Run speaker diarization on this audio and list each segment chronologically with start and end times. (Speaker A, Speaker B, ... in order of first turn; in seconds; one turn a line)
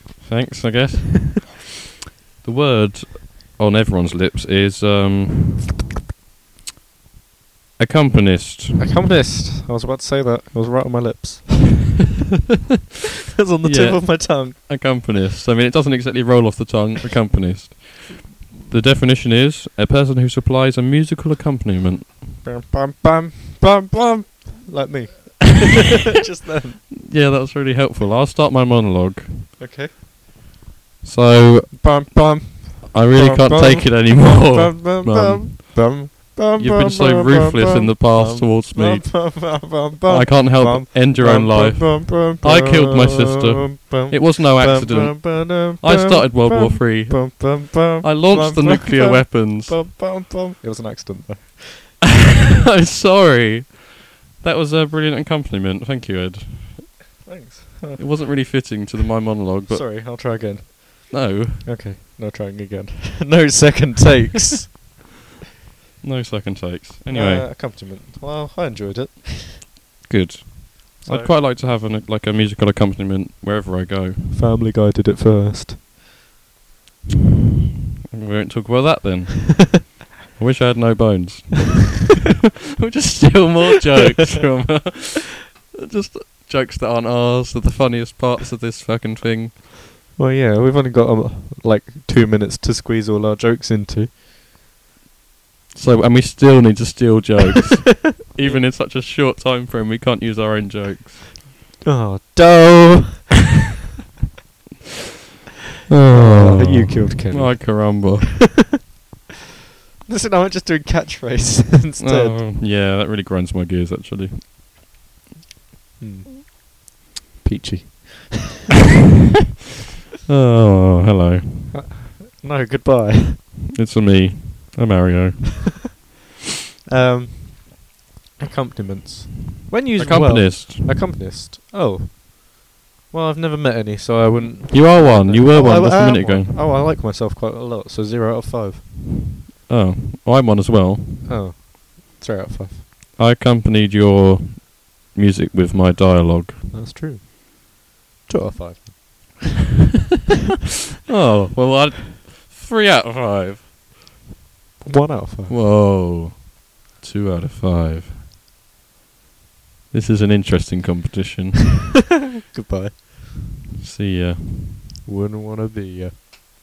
Speaker A: 0.2-1.6
Speaker A: 2.4-5.7
Speaker A: 7.8-8.9
Speaker B: 8.8-12.0
Speaker B: 13.4-14.6
Speaker A: 13.6-22.2
Speaker B: 22.4-26.8
Speaker A: 27.0-29.5
Speaker B: 29.6-29.9
Speaker A: 31.0-32.1
Speaker B: 31.7-51.9
Speaker A: 32.9-36.0
Speaker A: 36.6-49.8
Speaker A: 52.1-57.0
Speaker B: 57.2-58.6
Speaker A: 58.0-60.1
Speaker B: 59.7-64.9
Speaker A: 61.1-61.7
Speaker A: 66.0-67.5
Speaker B: 67.1-69.6
Speaker A: 70.1-74.4
Speaker B: 71.0-71.3
Speaker B: 74.3-75.8
Speaker A: 78.1-82.2
Speaker A: 82.8-89.7
Speaker B: 90.2-94.1
Speaker A: 95.7-101.3
Speaker B: 101.8-103.3
Speaker A: 105.9-108.6
Speaker B: 106.1-108.2
Speaker B: 110.1-112.4
Speaker A: 112.0-114.5
Speaker B: 116.0-116.5
Speaker B: 117.4-118.6
Speaker A: 120.3-121.8
Speaker B: 121.7-123.5
Speaker A: 123.7-125.7
Speaker B: 126.9-138.9
Speaker A: 129.9-131.0
Speaker A: 134.7-136.7
Speaker A: 139.7-141.3
Speaker B: 141.2-142.8
Speaker A: 143.2-146.6
Speaker B: 146.7-147.3
Speaker B: 148.3-149.4
Speaker A: 151.1-153.7
Speaker B: 154.8-155.6
Speaker A: 155.5-158.2
Speaker A: 159.9-161.8
Speaker B: 162.5-163.0
Speaker A: 163.8-164.9
Speaker B: 165.1-166.2